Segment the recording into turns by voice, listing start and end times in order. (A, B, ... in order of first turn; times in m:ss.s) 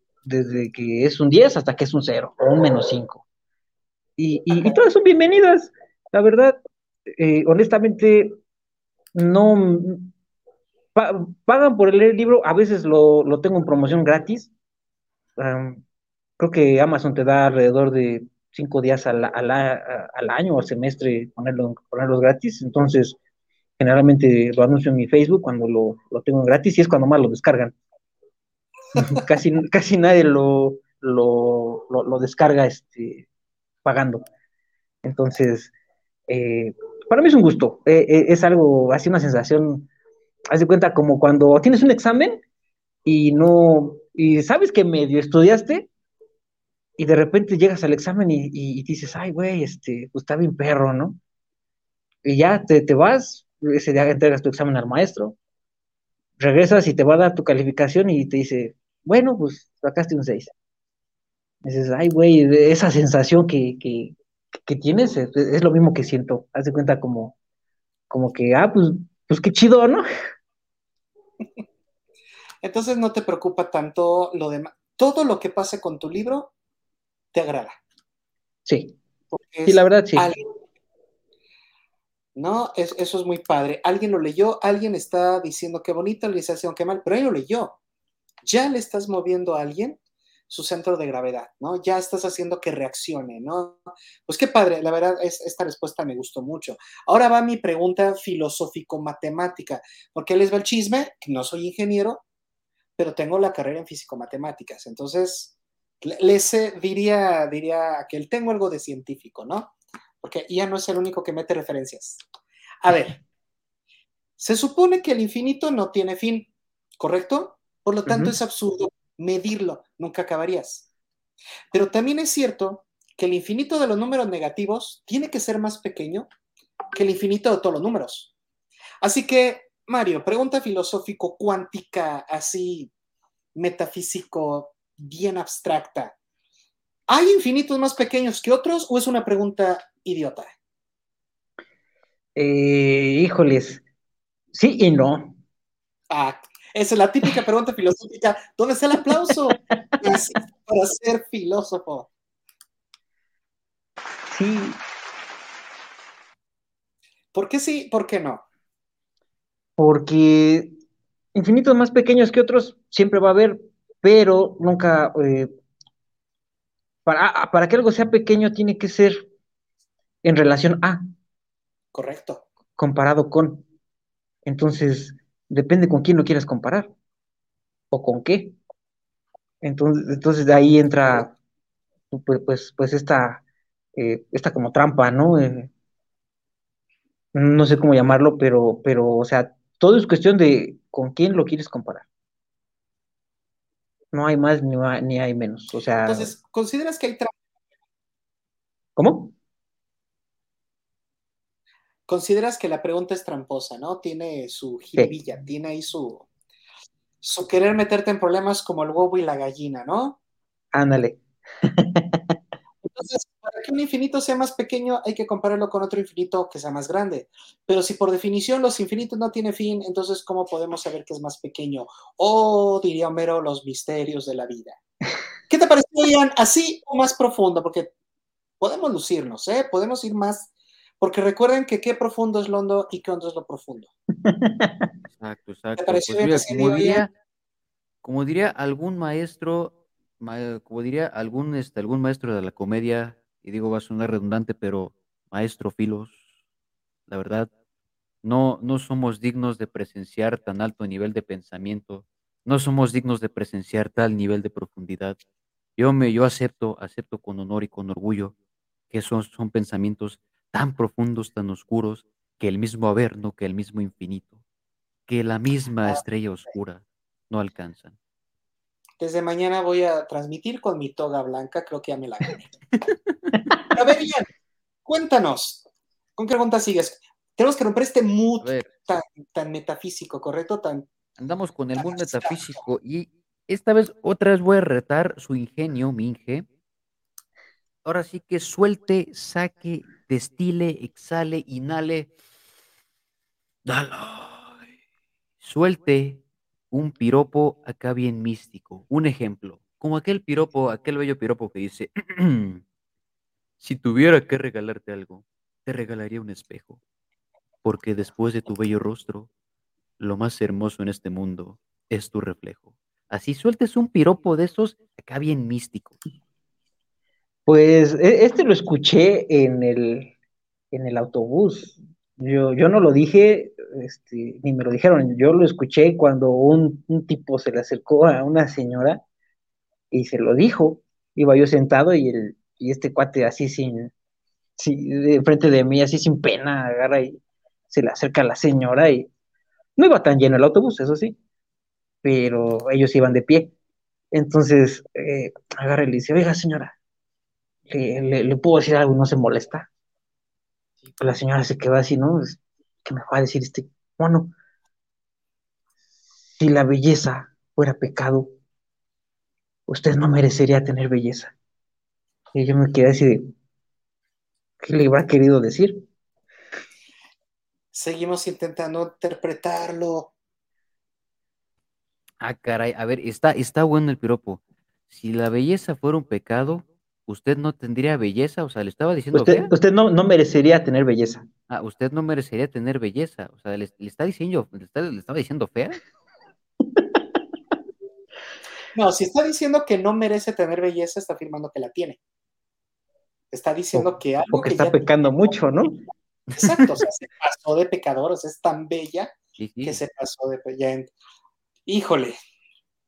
0:00.2-0:03.2 A
0:04.2-0:06.6 A
0:07.2-0:08.4 A
0:09.1-0:10.1 A
0:11.0-0:14.5 A
0:15.4-0:15.8 A
0:16.4-0:23.2 A
0:23.8-0:27.8 A
0:29.0-0:33.3 A
0:33.8-0:34.2 A
0:35.0-0:35.7 A
0:36.3-0:39.9 A
0:40.5-0:42.4 A
0:43.0-0:45.9 A
0:47.0-0:51.2 A
0:52.2-0:55.4 A
0:56.4-1:00.5 A
1:01.6-1:07.4 A
1:08.1-1:10.1 A
1:12.6-1:16.5 B
1:17.3-1:17.8 B
1:18.7-1:19.0 A
1:19.3-1:20.4 B
1:19.7-1:20.3 A
1:22.4-1:27.8 B
1:28.4-1:42.2 B
1:43.0-1:52.2 B
1:52.8-1:53.2 B
1:54.4-2:00.9 B
1:58.1-1:58.3 A
2:01.7-2:06.3 B
2:06.9-2:08.3 B
2:09.0-2:12.9 B
2:13.6-2:16.2 B
2:17.1-2:20.5 B
2:22.4-2:23.8 A
2:24.5-2:25.4 A
2:26.1-2:32.1 B
2:34.3-2:34.8 A
2:37.3-2:38.4 B
2:39.8-2:40.7 A
2:41.4-2:45.5 A
2:47.0-2:49.3 A
2:50.2-2:51.1 A
2:51.9-2:52.4 B
2:52.8-2:53.6 A
2:54.4-2:56.9 A
2:57.9-2:58.6 A
2:59.6-3:01.3 A
3:02.1-3:03.4 A
3:04.0-3:05.7 A
3:07.3-3:12.1 A
3:14.1-3:16.3 A
3:16.0-3:17.4 B
3:19.0-3:19.3 A
3:22.1-3:26.3 B
3:27.2-3:30.2 B
3:30.7-3:32.4 A
3:32.8-3:44.8 B
3:45.5-3:47.9 B
3:48.6-3:53.9 B
3:54.2-3:54.9 A
3:55.1-3:57.1 C
3:55.8-3:57.1 B
3:58.0-4:06.2 C
4:07.1-4:07.5 C
4:08.2-4:15.2 C
4:15.8-4:18.3 C
4:18.9-4:24.4 C
4:25.1-4:28.0 C
4:29.0-4:32.5 B
4:33.8-4:34.3 B
4:34.9-4:35.6 B
4:36.2-4:40.9 B
4:38.4-4:38.7 C
4:41.2-4:46.5 C
4:41.8-4:42.4 B
4:47.8-4:52.1 C
4:53.7-4:54.7 C
4:55.4-5:02.6 C
5:03.6-5:06.8 C
5:07.6-5:09.3 C
5:10.0-5:16.0 C
5:17.5-5:20.1 A
5:20.7-5:29.0 A
5:29.9-5:33.9 A
5:34.6-5:39.1 A
5:39.8-5:41.2 A
5:42.0-5:43.5 A
5:44.1-5:46.8 A
5:47.7-5:49.7 A
5:51.0-5:54.3 A
5:56.4-5:58.3 A
5:59.7-6:01.3 A
6:02.3-6:03.3 A
6:04.6-6:05.8 A
6:07.7-6:10.1 B
6:12.2-6:19.5 C
6:19.1-6:21.3 A
6:21.5-6:25.8 C
6:26.7-6:27.0 A
6:28.8-6:32.0 B
6:33.3-6:34.8 B
6:33.7-6:35.8 A
6:36.4-6:40.9 B
6:39.4-6:39.8 C
6:41.7-6:42.1 B